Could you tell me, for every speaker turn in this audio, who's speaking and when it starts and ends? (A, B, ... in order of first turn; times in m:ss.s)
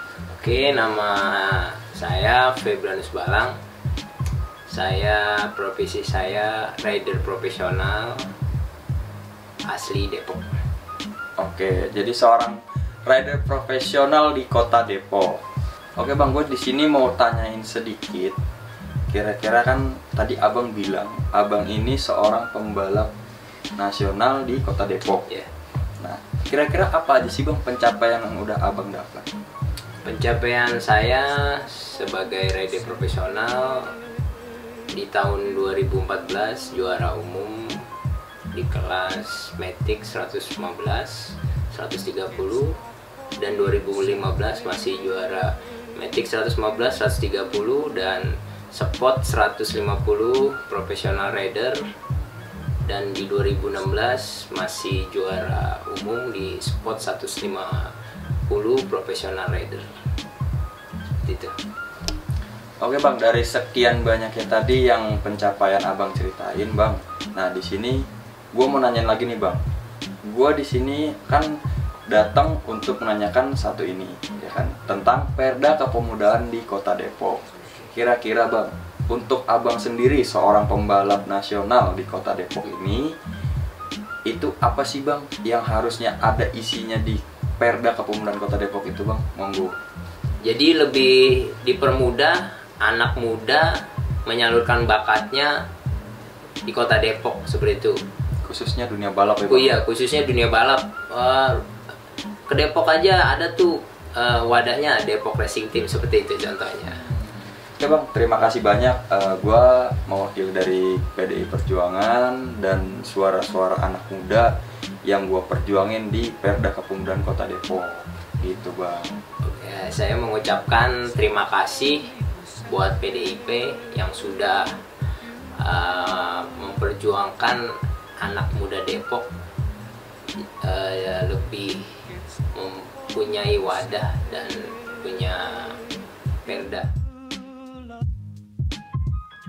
0:00.3-0:03.6 A
0:04.7-0:08.3 A
0:09.6-0:10.6 A
0:11.4-0:15.4 B
0:16.0-0:18.4 B
0:19.1-0:23.1 B
0:23.8-0:25.2 B
0:26.0-0:29.3 B
0:30.0-0:33.9 A
0:34.9-0:37.9 A
0:38.5-0:42.8 A
0:43.4-0:51.9 A
0:52.8-0:57.9 A
0:58.5-0:59.9 A
1:01.2-1:01.6 A
1:02.8-1:09.6 B
1:10.3-1:11.6 B
1:12.1-1:23.2 B
1:24.3-1:29.8 B
1:30.4-1:35.6 A
1:36.7-1:38.0 A
1:38.4-1:39.8 B
1:39.5-1:41.7 A
1:42.5-1:47.1 A
1:47.1-1:54.5 B
1:55.0-1:59.2 B
1:59.4-2:02.1 A
2:02.7-2:04.8 A
2:05.6-2:07.7 A
2:08.2-2:09.3 A
2:10.6-2:15.8 A
2:16.4-2:16.9 A